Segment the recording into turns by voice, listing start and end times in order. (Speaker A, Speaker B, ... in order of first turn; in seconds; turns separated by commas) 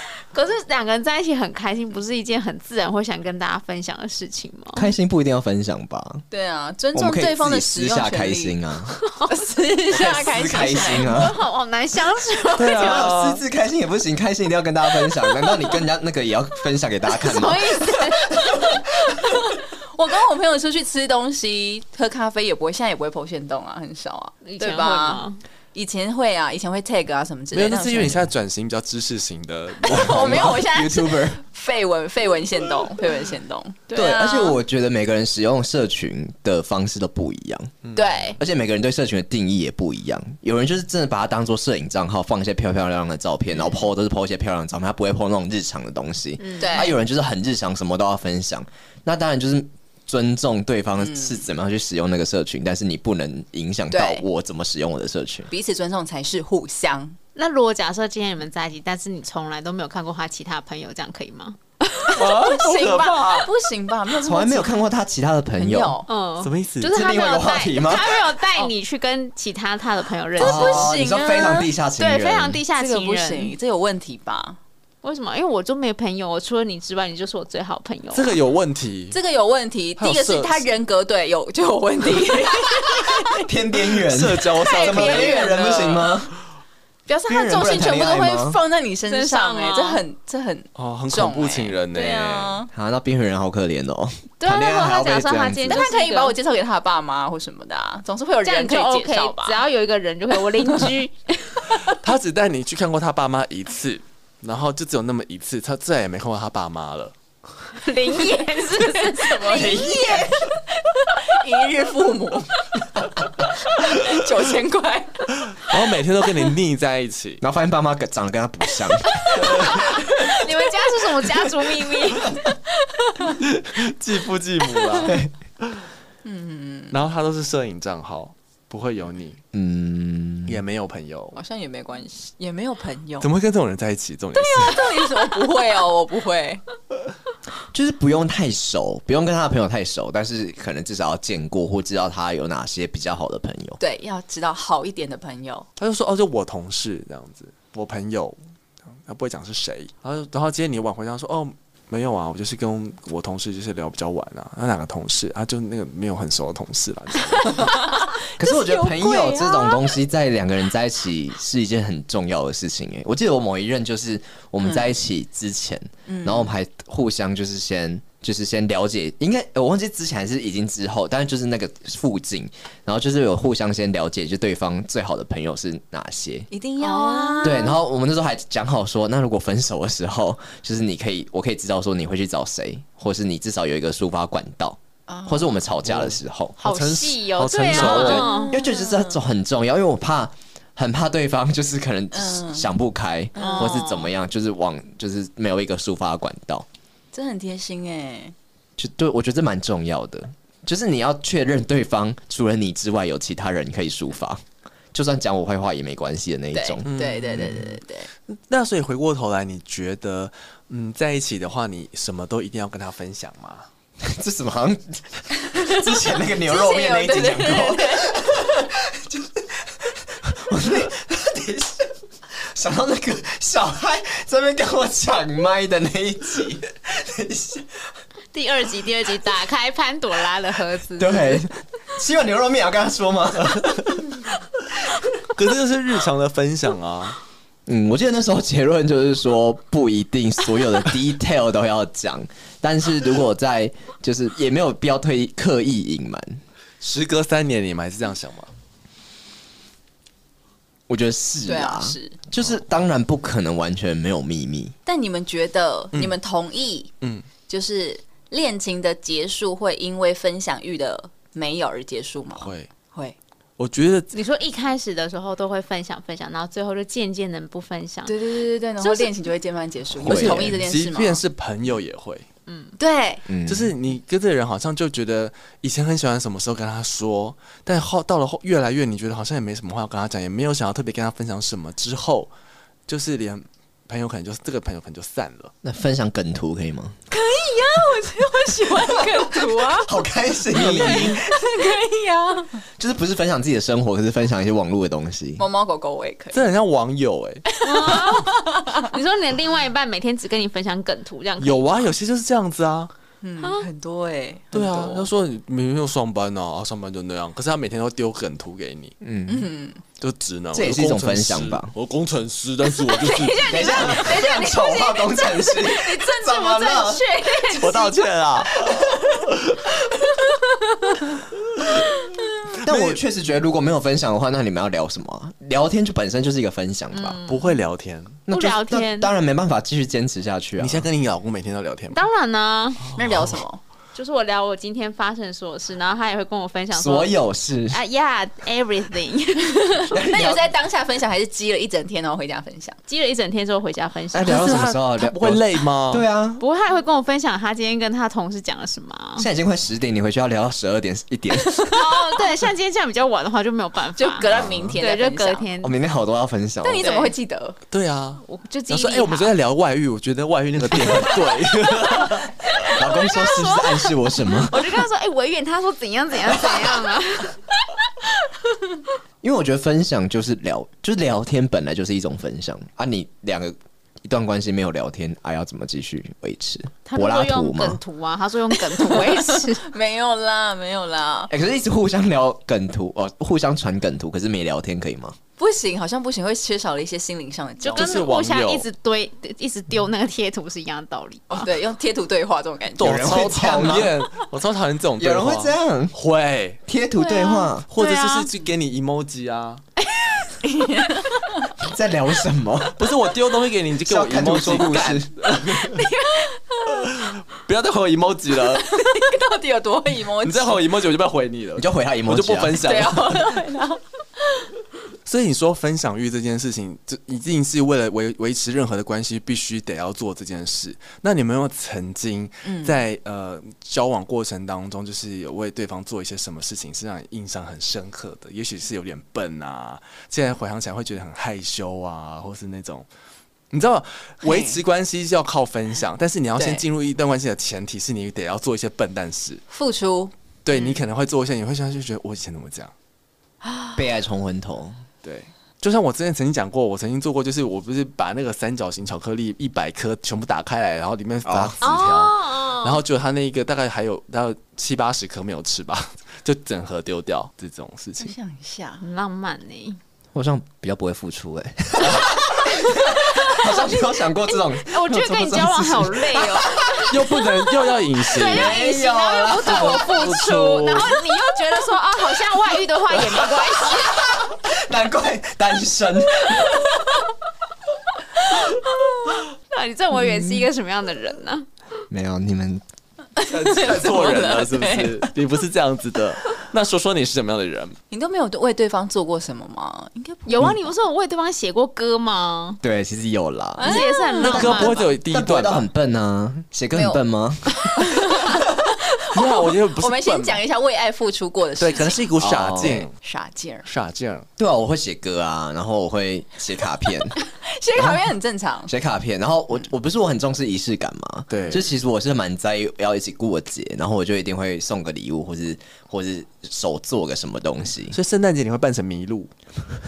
Speaker A: 0.3-4.9, Speaker B: 4.8-6.2, Speaker C: 6.3-8.6, Speaker B: 6.9-9.0, Speaker A: 9.1-9.3, Speaker C: 9.3-11.3, Speaker B: 9.9-11.3, Speaker A: 10.9-13.1, Speaker D: 12.6-13.4, Speaker B: 12.7-18.8, Speaker C: 17.2-28.2, Speaker A: 24.4-25.4, Speaker D: 27.5-30.6, Speaker C: 29.8-34.6, Speaker B: 30.0-31.4, Speaker B: 33.9-37.7, Speaker D: 37.8-38.2, Speaker C: 37.9-38.4, Speaker B: 38.4-55.5, Speaker A: 46.4-46.9, Speaker C: 46.6-46.9, Speaker C: 51.0-51.4, Speaker C: 53.9-54.2, Speaker C: 55.5-57.2, Speaker A: 57.3-62.4, Speaker D: 62.1-63.5, Speaker C: 62.2-64.8, Speaker B: 64.2-66.0, Speaker C: 65.6-66.1, Speaker A: 66.1-70.9, Speaker D: 66.4-67.0, Speaker B: 66.9-68.2, Speaker C: 70.3-71.7, Speaker B: 70.4-72.6, Speaker A: 72.0-73.5, Speaker C: 72.7-74.6, Speaker A: 75.0-78.4, Speaker D: 78.1-79.2, Speaker C: 79.1-83.5, Speaker D: 80.0-80.7, Speaker B: 83.3-86.3, Speaker D: 84.0-85.7, Speaker C: 84.5-86.1, Speaker C: 87.1-92.7, Speaker B: 87.3-88.6, Speaker A: 89.1-90.0, Speaker D: 90.8-92.6, Speaker B: 92.7-95.8, Speaker A: 94.4-96.3, Speaker C: 95.7-99.6, Speaker A: 98.4-101.9, Speaker D: 101.9-107.1, Speaker A: 107.8-110.2, Speaker C: 108.1-112.5, Speaker B: 109.5-110.5, Speaker C: 113.7-115.3, Speaker D: 115.5-117.4, Speaker B: 117.4-119.7, Speaker C: 119.3-119.8, Speaker D: 119.3-119.8, Speaker A: 119.6-122.4, Speaker D: 123.4-125.8, Speaker C: 124.8-125.1, Speaker B: 125.0-125.3, Speaker C: 126.2-127.0, Speaker D: 126.9-129.4, Speaker B: 129.5-130.6, Speaker D: 130.5-131.4, Speaker C: 131.3-133.3, Speaker D: 133.2-134.9, Speaker C: 134.3-136.6, Speaker B: 137.7-143.8, Speaker C: 143.8-145.7, Speaker D: 145.8-148.4, Speaker D: 149.1-157.9, Speaker C: 157.5-160.0, Speaker B: 158.4-176.5, Speaker C: 164.6-164.9, Speaker C: 166.1-166.5, Speaker C: 176.5-177.8, Speaker A: 176.8-177.8, Speaker B: 177.4-186.6, Speaker C: 185.1-185.7, Speaker D: 185.8-188.3, Speaker A: 186.6-188.6, Speaker B: 187.7-196.7, Speaker C: 187.9-189.2, Speaker C: 192.1-192.7, Speaker C: 193.3-193.9, Speaker A: 193.3-194.1, Speaker C: 197.1-198.3, Speaker B: 198.8-204.4, Speaker B: 204.9-207.7, Speaker C: 206.5-208.1, Speaker D: 206.8-207.7, Speaker D: 208.3-213.7, Speaker B: 214.0-227.9, Speaker C: 215.5-218.2, Speaker A: 228.3-231.4, Speaker B: 231.0-234.1, Speaker D: 235.2-237.2, Speaker B: 237.7-246.4, Speaker D: 246.8-248.5, Speaker B: 250.9-254.7, Speaker C: 251.4-252.2, Speaker C: 254.8-263.2, Speaker D: 262.4-262.7, Speaker D: 263.6-264.1, Speaker A: 264.1-268.2, Speaker C: 268.1-271.2, Speaker A: 268.8-269.1, Speaker D: 270.0-272.2, Speaker B: 270.0-270.6, Speaker A: 272.5-272.8, Speaker C: 272.8-273.3, Speaker B: 273.3-273.7, Speaker D: 273.4-282.3, Speaker D: 282.9-285.5, Speaker B: 285.6-286.9, Speaker C: 287.1-289.9, Speaker B: 289.7-291.4, Speaker D: 290.5-291.2, Speaker C: 290.5-292.6, Speaker B: 292.8-295.4, Speaker C: 295.4-296.4, Speaker D: 296.3-297.4, Speaker C: 297.5-298.9, Speaker A: 297.6-301.9, Speaker D: 301.4-302.9, Speaker C: 303.2-305.1, Speaker A: 303.4-303.7, Speaker D: 304.5-308.9, Speaker B: 309.0-309.5, Speaker C: 309.3-309.8, Speaker D: 310.0-314.1, Speaker B: 310.5-311.7, Speaker C: 312.7-318.0, Speaker B: 313.5-317.2, Speaker D: 317.6-318.7, Speaker B: 318.6-319.1, Speaker C: 318.7-319.2, Speaker C: 319.8-320.3, Speaker D: 322.6-323.0, Speaker B: 322.6-327.2, Speaker A: 326.9-327.6, Speaker D: 327.3-328.2, Speaker B: 328.3-330.9, Speaker A: 328.3-329.1, Speaker D: 330.6-332.0, Speaker A: 331.9-332.8, Speaker D: 332.8-333.4, Speaker C: 332.9-333.6, Speaker A: 333.9-337.1, Speaker B: 336.7-337.8, Speaker A: 337.7-339.9, Speaker B: 339.9-340.5, Speaker C: 340.0-342.8, Speaker A: 342.9-344.7, Speaker B: 344.1-346.4, Speaker D: 344.2-346.1, Speaker A: 346.4-349.3, Speaker B: 349.2-351.8, Speaker C: 351.5-351.8, Speaker A: 351.7-355.7, Speaker C: 354.0-355.5, Speaker D: 354.3-354.6, Speaker B: 355.6-356.9, Speaker C: 356.6-357.6, Speaker A: 356.8-357.1, Speaker D: 357.7-362.5, Speaker A: 358.2-359.3, Speaker B: 360.7-361.1, Speaker A: 362.5-367.6, Speaker B: 362.7-364.8, Speaker B: 366.3-366.7, Speaker B: 369.2-377.8, Speaker A: 376.9-379.7, Speaker C: 378.7-381.3, Speaker B: 381.3-385.2, Speaker C: 385.4-388.1, Speaker A: 387.6-391.5, Speaker D: 387.7-388.7, Speaker C: 391.3-393.9, Speaker D: 392.8-396.6, Speaker B: 392.8-393.9, Speaker B: 395.0-395.9, Speaker B: 396.7-397.7, Speaker A: 397.0-398.3, Speaker D: 397.7-399.6, Speaker C: 400.4-401.5, Speaker B: 401.6-402.9, Speaker D: 402.8-405.9, Speaker B: 403.8-405.1, Speaker C: 405.4-406.9, Speaker D: 406.8-408.8, Speaker C: 408.5-410.6, Speaker D: 410.2-413.4, Speaker B: 411.6-412.6, Speaker C: 412.6-413.8, Speaker D: 415.1-432.9, Speaker C: 422.4-422.8, Speaker D: 433.5-439.4, Speaker C: 434.2-434.6, Speaker C: 436.4-436.6, Speaker C: 439.5-440.8, Speaker D: 440.4-442.7, Speaker C: 443.4-443.9, Speaker B: 443.7-444.8, Speaker D: 445.0-458.1, Speaker B: 451.2-451.6, Speaker A: 451.6-452.8, Speaker C: 458.0-458.8, Speaker A: 458.8-459.8, Speaker B: 460.1-466.9, Speaker A: 464.6-466.9, Speaker D: 466.9-468.6, Speaker A: 468.1-474.1, Speaker B: 468.2-470.0, Speaker D: 469.5-470.9, Speaker B: 473.6-476.7, Speaker A: 479.5-481.5, Speaker B: 479.9-480.5, Speaker B: 481.9-482.6, Speaker C: 483.2-485.0, Speaker D: 483.3-487.8, Speaker C: 487.9-490.6, Speaker A: 490.2-492.6, Speaker B: 492.6-498.2, Speaker C: 493.6-494.6, Speaker A: 493.6-494.8, Speaker D: 494.2-495.7, Speaker C: 496.7-497.0, Speaker C: 497.7-502.1, Speaker D: 499.1-500.4, Speaker D: 501.6-502.9, Speaker B: 502.2-502.9, Speaker C: 502.6-503.7, Speaker D: 503.6-504.2, Speaker B: 504.4-507.2, Speaker C: 507.3-508.7, Speaker B: 507.7-508.1, Speaker B: 508.7-518.0, Speaker D: 511.3-511.6, Speaker D: 517.9-519.3